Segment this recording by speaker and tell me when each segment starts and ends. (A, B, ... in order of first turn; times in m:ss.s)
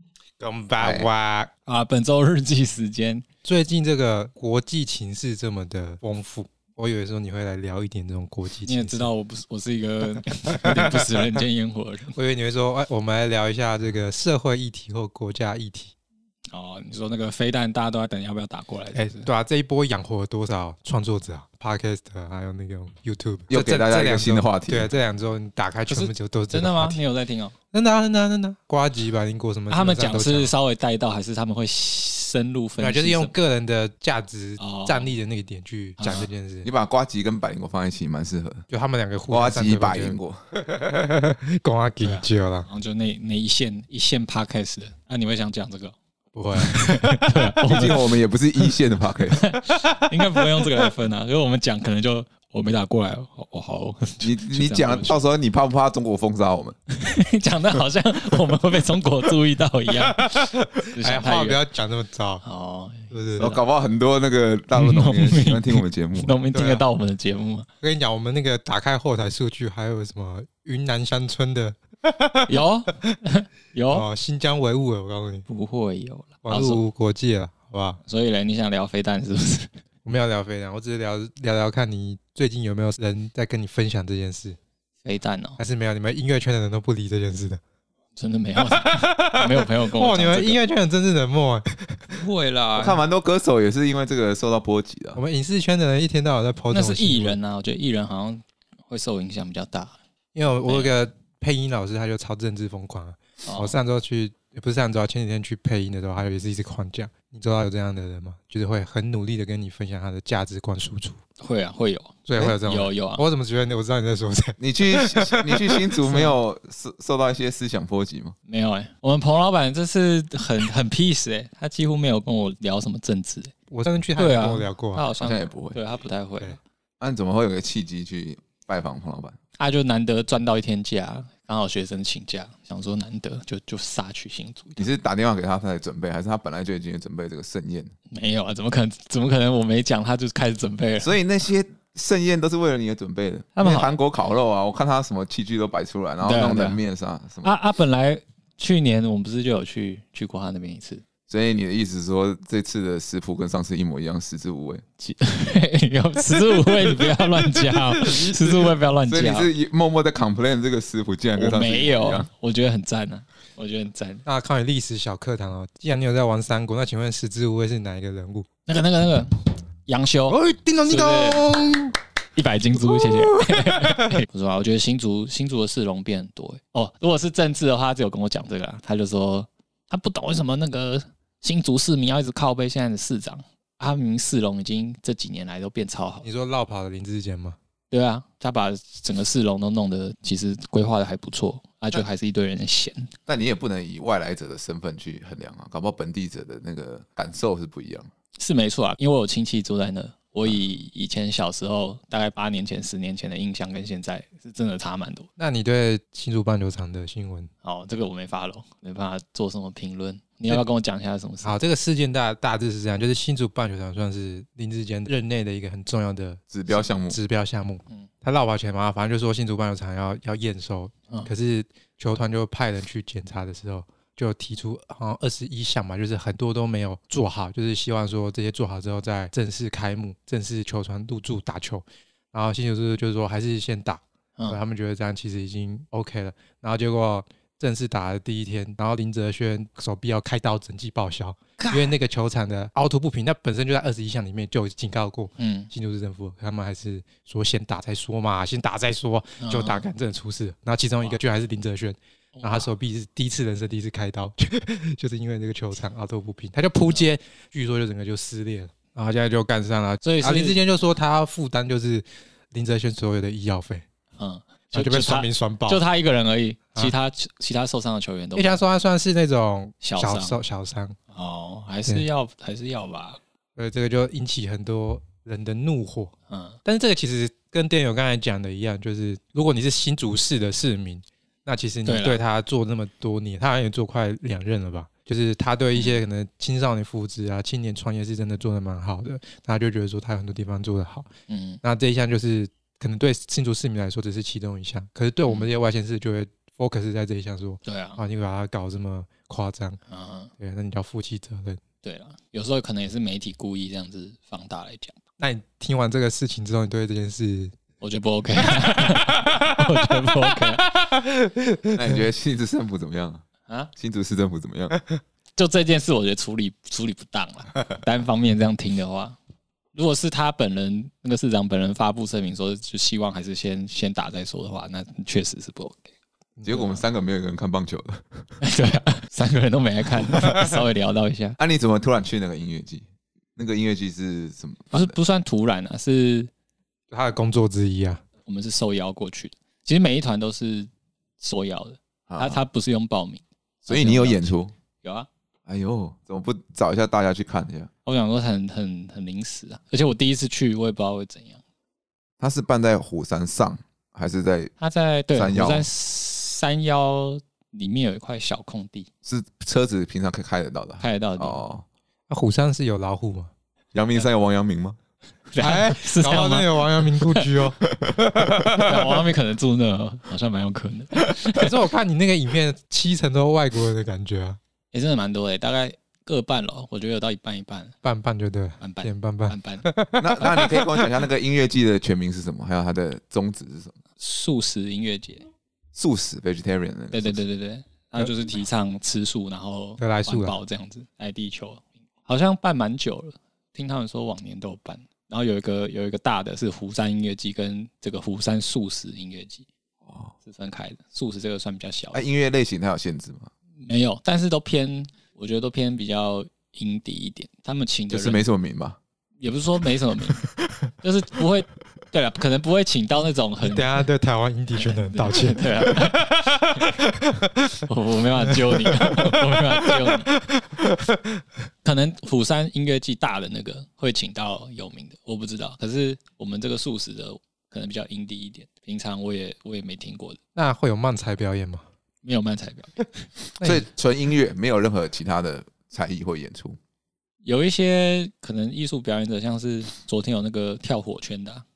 0:00.4-0:01.5 A
0:00.8-0:01.1 B
0:01.7-0:03.2 C
0:03.4-0:09.1 A
0:08.7-0:12.2 C
0:10.5-0:11.4 A
0:12.2-0:15.9 A
0:16.5-0:19.3 C
0:18.9-0:27.0 A
0:23.5-0:24.9 B
0:25.9-0:27.6 C
0:27.7-0:30.5 A
0:29.7-0:33.3 C
0:32.8-0:36.7 A
0:34.6-0:35.1 C
0:36.0-0:36.3 C
0:36.6-0:38.6 B
0:38.7-0:42.7 A
0:39.3-0:40.4 B
0:42.0-0:46.0 C
0:46.3-0:47.3 A
0:46.6-0:48.1 C
0:47.6-0:49.5 B
0:49.4-0:55.2 C
0:49.8-0:50.6 A
0:54.2-0:56.8 B
0:57.0-1:01.6 C
1:00.0-1:02.4 A
1:02.4-1:03.6 C
1:03.1-1:03.5 A
1:03.4-1:06.4 B
1:04.7-1:07.7 C
1:06.5-1:06.8 A
1:07.8-1:13.2 A
1:12.5-1:14.1 C
1:13.9-1:15.5 A
1:15.5-1:16.8 C
1:16.4-1:18.0 A
1:18.0-1:19.7 C
1:20.0-1:24.6 A
1:25.0-1:25.6 C
1:25.6-1:27.6 A
1:28.2-1:30.6 C
1:28.8-1:32.0 A
1:32.1-1:33.0 C
1:32.8-1:35.2 B
1:35.2-1:37.4 A
1:36.7-1:40.0 C
1:40.3-1:51.2 A
1:40.6-1:40.9 C
1:43.4-1:43.8 C
1:51.4-1:53.2 C
1:52.3-1:55.9 A
1:54.6-1:58.4 B
1:58.5-2:03.5 C
2:03.7-2:05.1 A
2:04.2-2:06.6 C
2:05.2-2:05.8 B
2:07.0-2:09.4 B
2:09.6-2:14.9 C
2:14.8-2:17.9 B
2:18.1-2:21.1 C
2:21.0-2:27.5 B
2:23.6-2:23.9 C
2:26.2-2:26.8 C
2:27.4-2:31.0 C
2:31.3-2:34.8 B
2:35.0-2:39.5 C
2:38.0-2:38.4 A
2:39.1-2:42.3 B
2:41.4-2:44.2 C
2:44.3-2:48.5 A
2:48.7-2:51.5 C
2:50.3-2:52.0 A
2:52.4-3:06.3 C
2:52.9-2:54.1 A
3:06.2-3:07.6 A
3:07.9-3:13.1 C
3:13.3-3:18.1 B
3:18.4-3:25.3 C
3:25.4-3:27.5 A
3:27.6-3:31.6 C
3:31.4-4:23.8 A
3:36.5-3:37.2 B
4:01.6-4:01.9 C
4:05.4-4:05.7 C
4:09.4-4:09.8 C
4:12.4-4:12.7 C
4:20.0-4:20.6 C
4:24.2-4:28.6 C
4:24.7-4:25.8 A
4:28.4-4:31.0 A
4:29.8-4:30.4 C
4:31.1-4:33.2 C
4:33.6-4:36.1 A
4:36.3-4:36.6 C
4:36.6-4:51.1 A
4:41.8-4:42.2 C
4:51.3-4:51.6 C
4:51.6-4:59.8 A
4:57.6-4:58.0 C
4:59.9-5:00.3 C
5:00.4-5:01.6 A
5:01.8-5:05.0 C
5:05.2-5:07.5 A
5:07.8-5:10.6 C
5:08.9-5:09.6 A
5:10.3-5:12.0 A
5:11.7-5:13.2 B
5:13.8-5:14.8 B
5:15.4-5:19.2 C
5:19.7-5:25.9 C
5:26.4-5:26.7 A
5:26.4-5:28.2 B
5:28.4-5:31.4 C
5:31.4-5:32.8 B
5:33.4-5:35.0 B
5:34.7-5:36.3 C
5:36.9-5:38.0 A
5:38.3-5:45.1 C
5:42.1-5:42.4 B
5:43.7-5:44.5 B
5:45.5-5:47.7 B
5:47.9-5:51.4 C
5:52.2-5:54.5 B
5:54.6-5:58.9 C
5:55.1-5:55.7 B
5:59.0-6:01.6 B
6:00.8-6:01.4 C
6:02.1-6:03.3 A
6:03.7-6:04.8 B
6:05.3-6:07.3 C
6:05.4-6:08.8 A
6:08.6-6:11.5 C
6:11.3-6:14.4 A
6:14.7-6:17.8 C
6:17.8-6:21.0 A
6:18.6-6:19.7 C
6:20.0-6:23.8 B
6:24.0-6:25.3 C
6:25.8-6:27.2 B
6:26.9-6:39.4 C
6:29.8-6:30.4 A
6:39.9-6:40.1 B
6:40.2-6:42.0 C
6:41.9-6:43.3 B
6:43.6-6:48.2 C
6:47.9-6:48.8 B
6:49.2-6:50.2 C
6:50.8-6:53.8 C
6:53.4-6:57.7 A
6:54.5-6:56.9 C
6:57.6-7:00.1 C
6:58.3-7:01.2 A
7:01.6-7:10.2 C
7:10.4-7:11.6 A
7:12.0-7:12.9 C
7:13.4-7:13.7 A
7:13.4-7:16.6 B
7:17.2-7:21.4 C